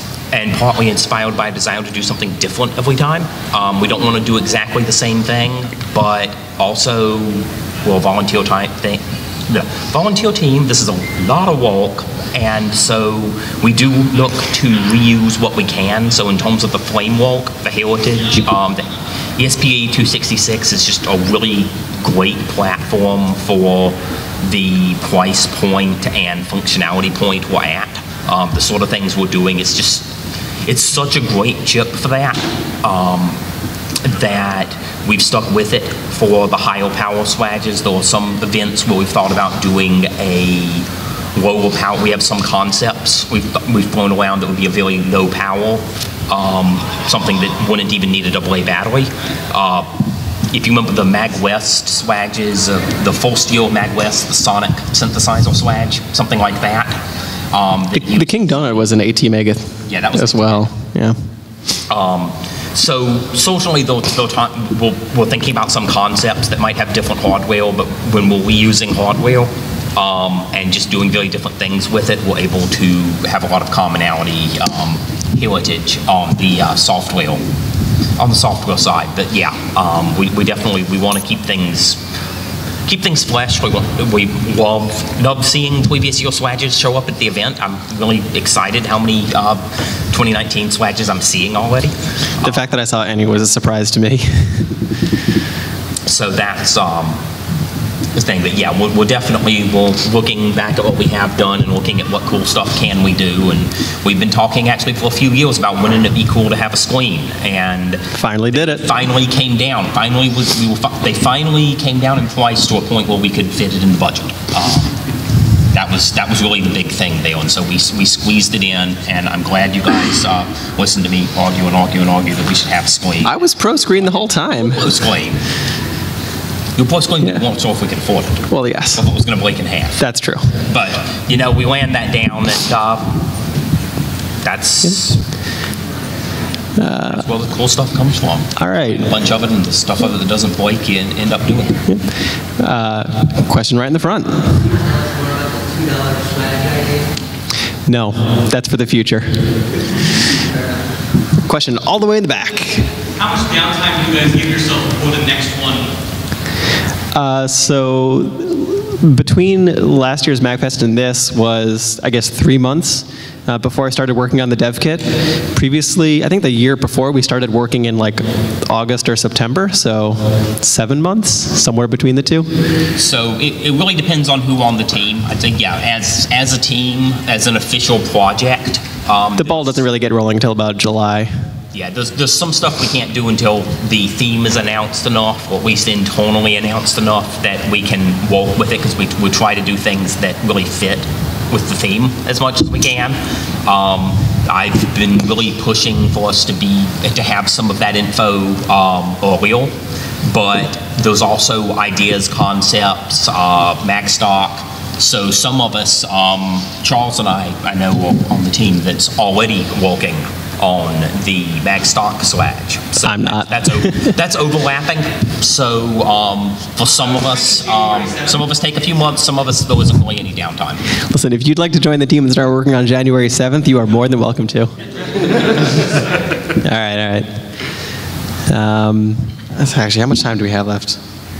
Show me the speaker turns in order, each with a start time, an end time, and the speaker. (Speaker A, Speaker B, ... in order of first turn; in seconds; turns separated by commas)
Speaker A: 0.3-30.1, Speaker A: 30.6-33.4, Speaker A: 34.0-49.9, Speaker A: 50.5-57.0, Speaker A: 57.5-58.5, Speaker B: 57.9-61.2, Speaker A: 59.9-60.6, Speaker A: 61.9-77.4, Speaker A: 78.2-82.0, Speaker A: 82.8-92.6, Speaker B: 92.4-94.5, Speaker A: 96.1-97.2, Speaker A: 98.1-115.0, Speaker B: 108.1-108.8, Speaker A: 115.7-123.4, Speaker B: 123.2-124.8, Speaker A: 124.5-125.4, Speaker A: 126.8-130.0, Speaker B: 128.5-129.0, Speaker B: 130.0-130.4, Speaker A: 130.7-133.1, Speaker A: 134.4-135.2, Speaker B: 136.8-137.2, Speaker A: 137.1-141.8, Speaker B: 138.6-139.1, Speaker B: 142.6-144.7, Speaker B: 147.9-149.5, Speaker B: 151.4-152.9, Speaker C: 153.2-155.9, Speaker B: 157.1-172.5, Speaker A: 172.9-179.8, Speaker B: 179.4-181.3, Speaker A: 181.7-199.7, Speaker A: 200.2-220.8, Speaker B: 213.0-214.1, Speaker C: 217.2-218.5, Speaker B: 221.1-224.7, Speaker B: 226.6-227.3, Speaker B: 228.5-231.0